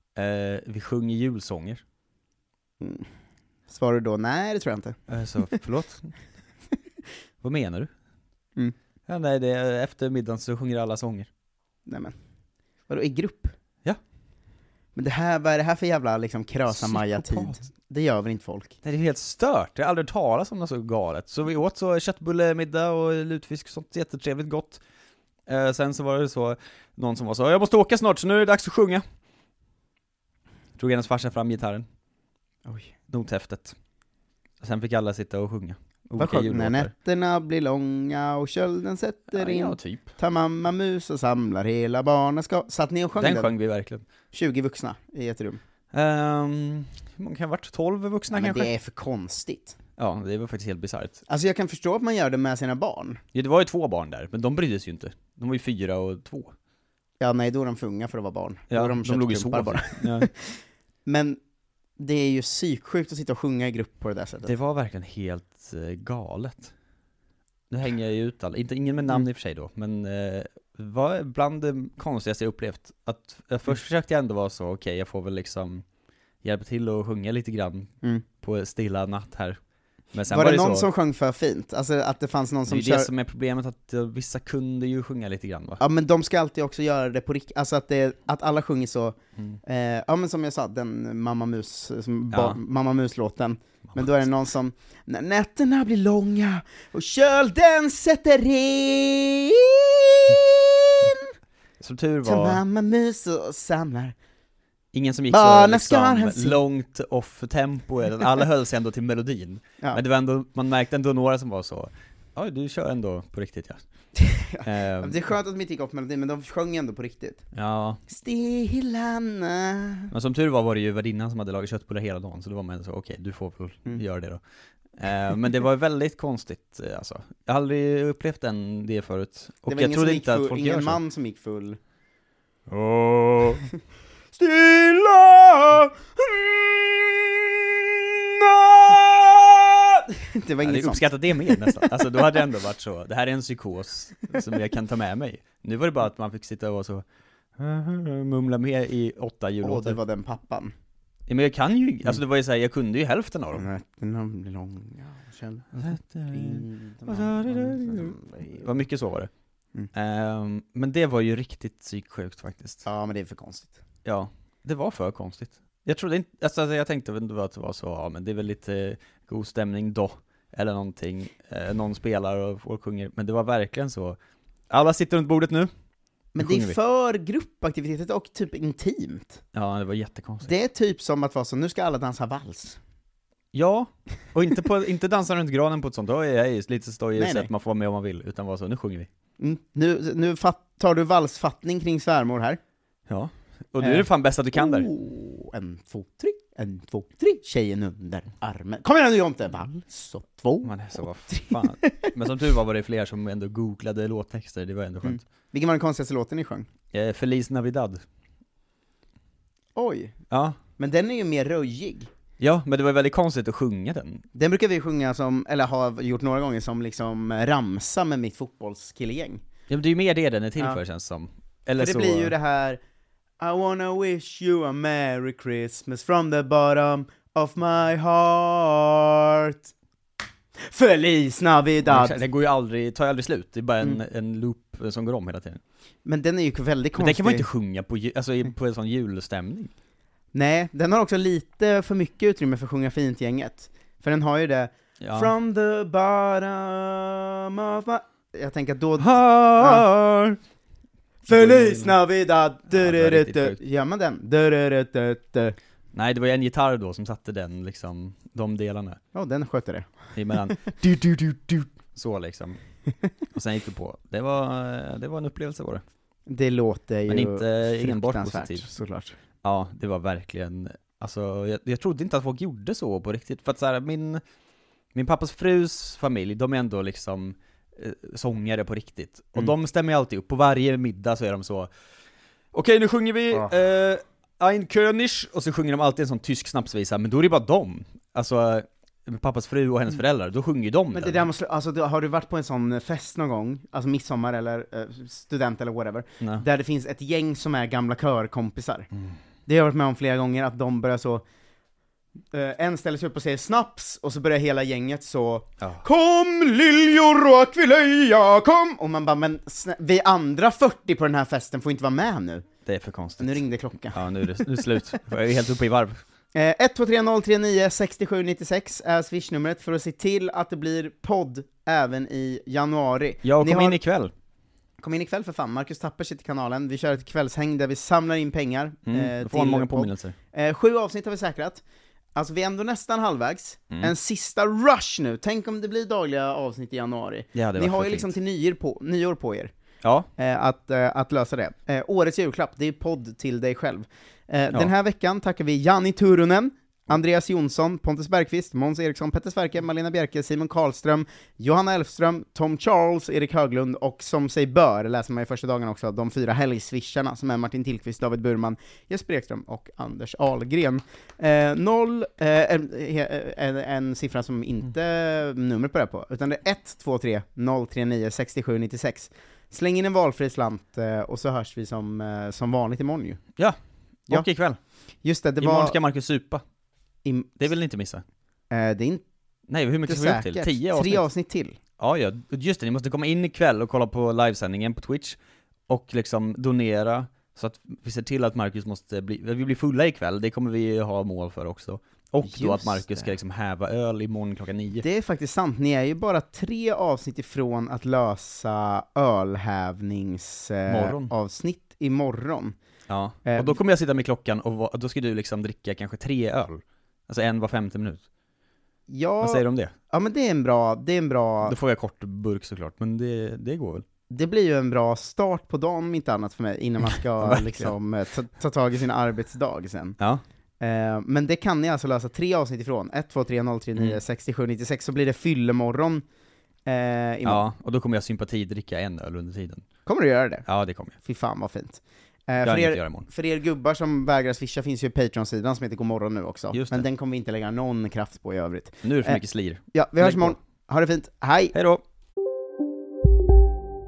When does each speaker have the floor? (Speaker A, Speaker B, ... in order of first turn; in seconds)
Speaker A: 0.1-1.8, 5.1-6.1, 7.4-7.9, 9.1-11.3, 16.7-17.6, 18.8-24.8, 25.5-29.0, 30.8-31.8, 33.1-33.8, 34.6-36.9, 39.3-40.1, 43.1-44.0, 45.9-48.7, 50.0-51.2, 53.3-56.5, 58.7-60.3, 64.4-66.7, 67.7-75.8, 76.4-79.6, 80.1-80.8, 82.7-85.8, 92.3-92.6, 93.9-94.2, 101.8-102.6, 104.9-113.8, 114.6-115.1, 117.5-118.0, 120.1-124.4, 125.0-131.0, 132.7-133.7, 140.6-147.0, 147.6-150.0, 151.3-153.6, 155.7-159.3, 159.9-162.8, 164.0-174.2, 174.7-175.7, 176.4-176.8, 179.5-180.5, 183.5-189.1, 193.1-194.9, 200.6-205.2, 206.9-208.0, 210.3-210.6, 212.4-214.2, 219.7-222.3, 231.8-235.6, 237.0-239.7, 245.0-245.3, 249.0-250.4, 251.3-252.0, 252.7-253.6, 255.9-259.0, 260.1-262.6, 263.3-265.8, 267.1-268.6, 269.4-274.2, 274.9-281.7, 282.5-291.2, 312.6-316.0, 323.2-324.1, 328.9-330.1, 337.3-338.1, 339.8-340.1, 374.1-374.6, 375.4-376.4, 377.4-378.0, 379.5-381.1, 381.8-385.2, 385.7-394.8, 400.7-401.1, 402.9-408.0, 409.2-409.7, 411.4-413.8, 417.1-417.7, 427.2-429.6, 430.4-431.0, 432.4-433.1, 436.5-436.9, 438.8-440.4, 441.5-441.8
Speaker B: 2.8-3.0, 3.7-5.0, 11.8-12.1, 12.9-13.5, 14.9-18.8, 32.6-32.9, 36.1-43.5, 44.3-45.6, 48.3-49.8, 51.3-53.2, 57.2-60.5, 61.0-61.4, 62.0-64.5, 80.3-83.1, 85.8-101.3, 102.2-104.1, 105.3-106.6, 114.2-117.4, 118.1-120.1, 129.7-131.8, 134.3-142.2, 149.6-150.7, 153.5-158.7, 162.8-163.8, 176.3-179.4, 180.4-182.8, 187.2-187.5, 189.4-192.6, 193.8-200.8, 201.3-202.1, 205.0-206.7, 209.8-210.1, 210.8-212.1, 214.3-219.4, 221.8-222.8, 223.4-229.7, 230.6-232.2, 236.0-237.5, 240.3-249.9, 251.2-255.6, 259.1-259.9, 266.2-269.2, 290.9-298.9, 299.5-301.2, 302.3-312.4, 313.2-314.0, 316.3-323.8, 324.8-331.6, 332.1-339.5, 340.2-373.2, 375.0-375.8, 377.0-377.5, 378.5-379.0, 379.9-381.6, 392.2-393.1, 394.8-402.6, 403.3-403.6, 408.9-411.6, 414.1-420.0, 420.6-426.0, 426.6-427.4, 429.9-430.4, 431.0-439.2, 439.7-441.5